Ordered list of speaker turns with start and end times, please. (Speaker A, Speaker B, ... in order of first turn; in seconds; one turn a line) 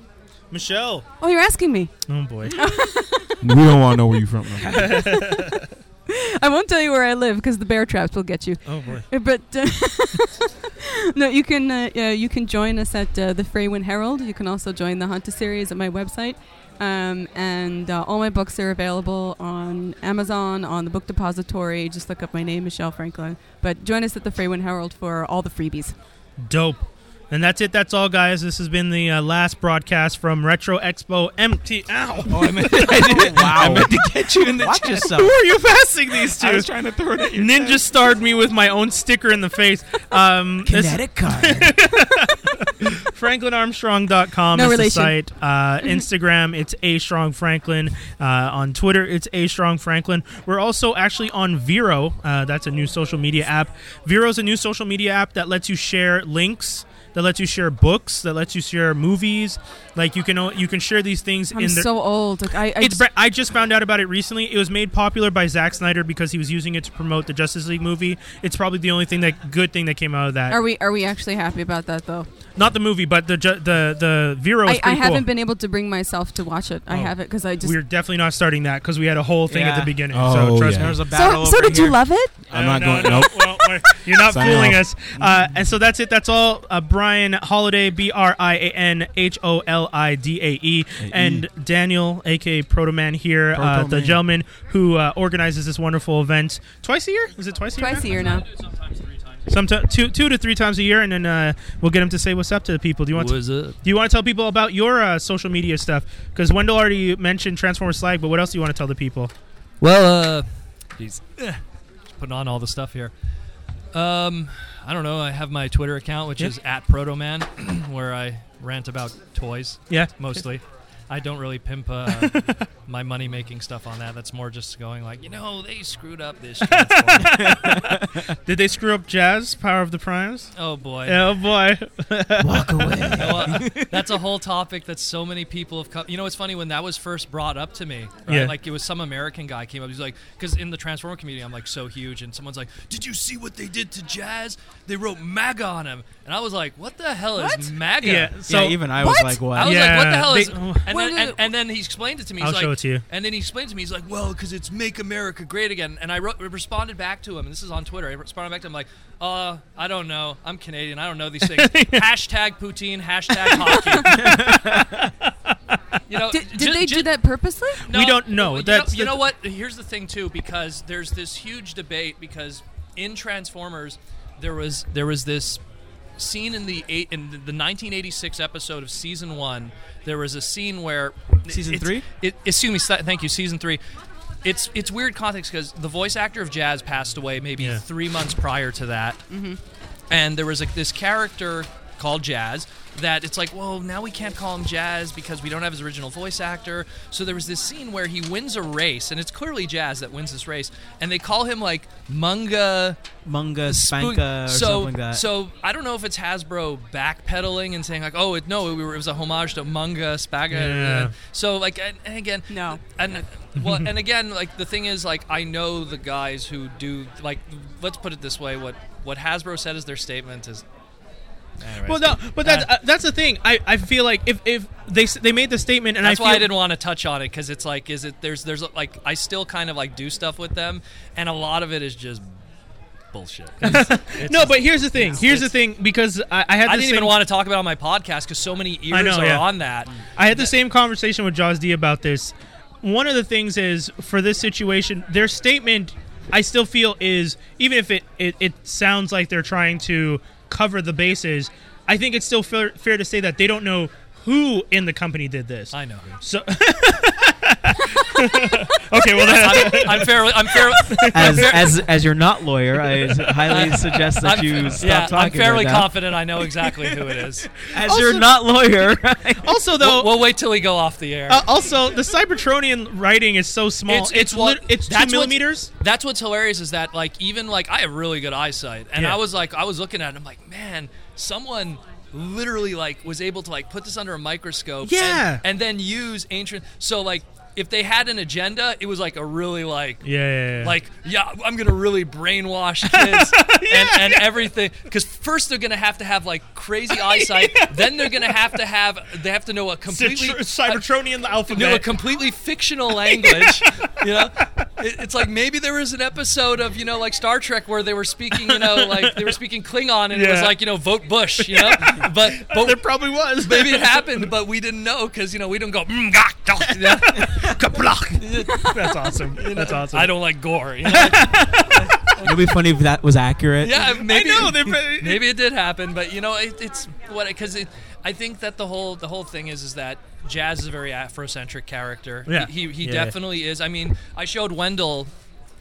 Speaker A: 0.5-1.1
Speaker B: 1.2-1.9
Speaker A: 2.1-2.6
Speaker B: 2.5-3.4
Speaker C: 3.4-5.1
Speaker A: 4.7-5.6
Speaker B: 4.7-25.9
Speaker A: 8.7-9.1
Speaker A: 26.4-33.7
Speaker D: 32.3-35.4
Speaker C: 32.3-35.1
Speaker A: 34.7-36.7
Speaker C: 36.4-37.9
Speaker A: 37.3-61.9
Speaker D: 40.6-41.8
Speaker B: 44.5-45.2
Speaker B: 61.5-63.1
Speaker A: 62.8-70.6
Speaker B: 70.5-72.3
Speaker A: 72.6-75.3
Speaker B: 74.7-77.8
Speaker A: 76.9-81.0
Speaker D: 79.5-80.0
Speaker C: 80.1-81.0
Speaker D: 80.6-82.0
Speaker B: 81.1-82.3
Speaker C: 82.5-85.5
Speaker A: 82.5-98.3
Speaker C: 91.0-91.5
Speaker C: 93.5-94.2
Speaker B: 97.7-98.5
Speaker E: 98.1-99.5
Speaker A: 99.5-109.3
Speaker E: 103.1-103.8
Speaker E: 109.8-111.6
Speaker E: 112.2-113.1
Speaker E: 113.9-127.8
Speaker A: 119.9-120.4
Speaker A: 122.1-122.6
Speaker A: 126.6-130.5
Speaker D: 127.2-128.3
Speaker E: 130.6-131.2
Speaker A: 131.1-133.6
Speaker D: 132.4-134.0
Speaker E: 133.2-148.7
Speaker A: 138.3-138.6
Speaker B: 147.4-147.7
Speaker A: 148.0-148.8
Speaker D: 148.4-149.9
Speaker B: 149.0-149.9
Speaker E: 149.6-164.5
Speaker A: 149.6-150.9
Speaker B: 150.9-151.4
Speaker A: 152.4-153.0
Speaker A: 161.4-162.1
Speaker A: 163.5-165.8
Speaker D: 164.1-164.9
Speaker E: 166.1-167.1
Speaker B: 166.3-167.9
Speaker E: 167.9-175.6
Speaker A: 167.9-169.2
Speaker E: 176.2-183.8
Speaker D: 181.5-182.1
Speaker E: 184.4-189.2
Speaker B: 189.3-189.6
Speaker E: 190.1-203.0
Speaker D: 203.2-205.2
Speaker E: 203.7-220.6
Speaker A: 210.5-211.1
Speaker B: 212.5-212.8
Speaker E: 221.6-222.7
Speaker A: 221.9-226.5
Speaker E: 226.0-232.4
Speaker E: 233.1-235.5
Speaker A: 233.6-237.2
Speaker E: 236.6-240.5
Speaker A: 238.9-239.5
Speaker A: 240.2-261.7
Speaker E: 255.7-256.2
Speaker E: 259.2-261.9
Speaker D: 261.1-266.1
Speaker E: 263.4-267.6
Speaker A: 263.5-263.8
Speaker D: 267.6-269.6
Speaker A: 267.7-268.4
Speaker A: 268.9-270.2
Speaker E: 269.8-271.4
Speaker A: 271.3-275.7
Speaker E: 273.9-290.1
Speaker A: 284.8-285.4
Speaker A: 290.0-290.7
Speaker E: 290.6-300.8
Speaker A: 292.9-294.3
Speaker A: 296.9-298.4
Speaker A: 299.9-302.0
Speaker E: 301.5-312.9
Speaker A: 303.1-303.9
Speaker A: 308.4-309.4
Speaker A: 310.1-310.6
Speaker A: 311.4-314.3
Speaker E: 313.4-317.5
Speaker A: 316.7-320.1
Speaker E: 318.2-318.7
Speaker B: 318.5-318.9
Speaker E: 319.3-322.4
Speaker D: 320.9-323.9
Speaker E: 323.6-335.1
Speaker A: 323.9-325.2
Speaker A: 332.3-333.1